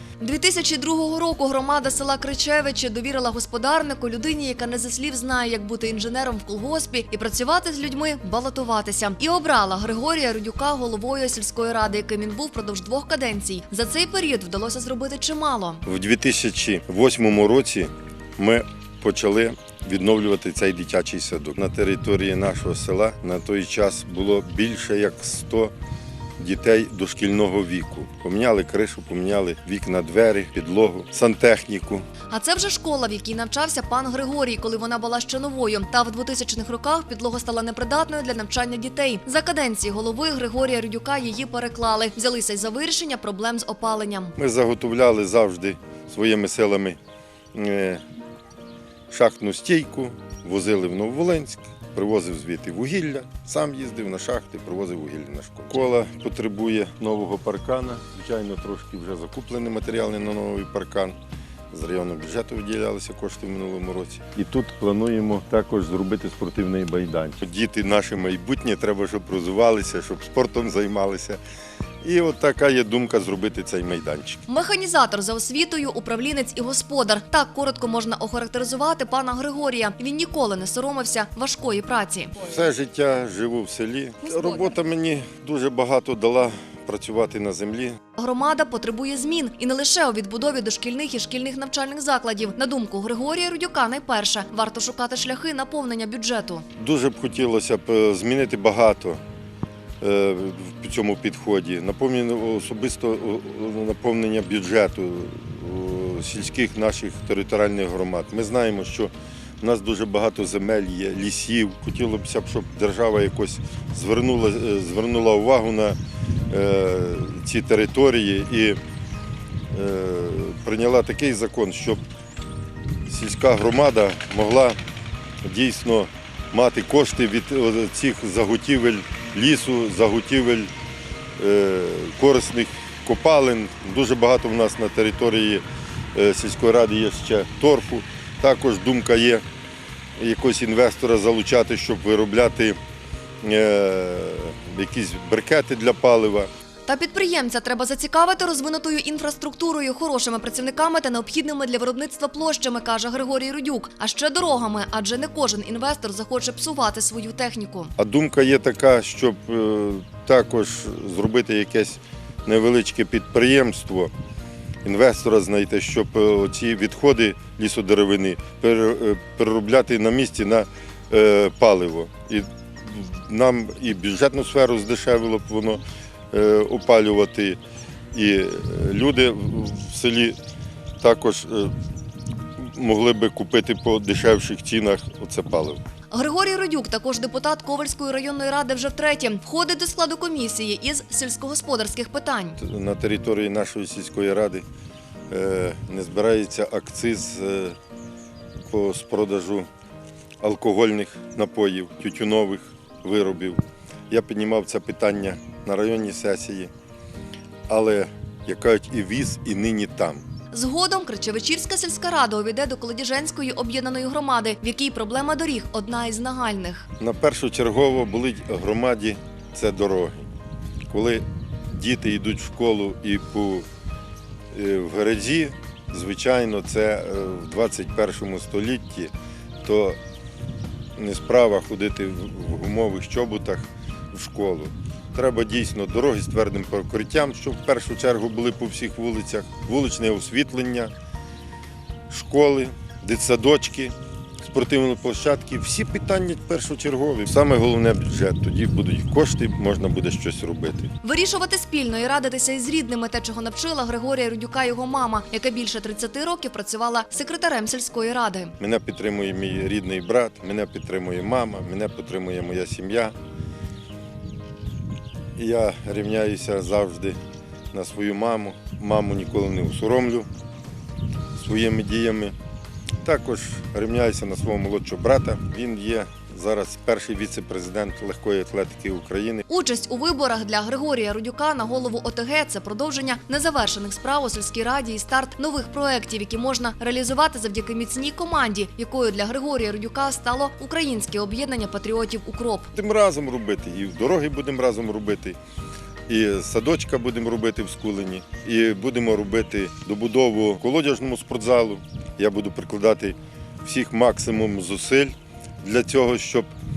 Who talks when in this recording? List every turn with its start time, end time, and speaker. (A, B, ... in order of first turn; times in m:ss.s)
0:00.2-0:15.8 A
0:15.8-0:25.7 B
0:26.4-0:32.0 B
0:32.3-0:44.3 A
0:44.4-0:47.0 B
0:47.5-0:48.0 B
0:49.1-1:01.2 B
1:01.7-1:11.4 B
1:12.0-1:14.4 B
1:14.5-1:22.4 A
1:22.4-1:28.0 B
1:28.2-1:36.6 A
1:36.8-1:39.2 B
1:40.0-1:56.0 B
1:56.5-1:58.8 B
1:59.7-2:02.0 B
2:03.0-2:04.8 B
2:05.4-2:10.7 B
2:11.4-2:15.6 B
2:16.1-2:19.4 B
2:20.2-2:22.8 B
2:23.4-2:26.5 B
2:26.8-2:37.9 A
2:38.0-2:44.1 B
2:44.8-2:57.6 B
2:58.1-3:00.4 B
3:01.0-3:01.7 B
3:02.6-3:05.8 B
3:06.1-3:12.6 A
3:12.6-3:14.6 B
3:15.3-3:17.8 B
3:18.7-3:19.7 B
3:20.4-3:26.7 B
3:27.7-3:30.2 B
3:30.5-3:36.9 A
3:37.0-3:40.3 B
3:40.9-3:43.6 B
3:44.5-3:49.1 B
3:49.6-3:50.0 B
3:51.0-4:00.9 B
4:02.1-4:10.9 B
4:11.0-4:18.5 A
4:18.6-4:23.1 B
4:25.4-4:27.2 B
4:27.7-4:30.3 B
4:31.3-4:32.3 B
4:33.0-4:39.4 B
4:39.5-4:52.7 A
4:52.7-4:55.4 B
4:56.1-5:06.5 B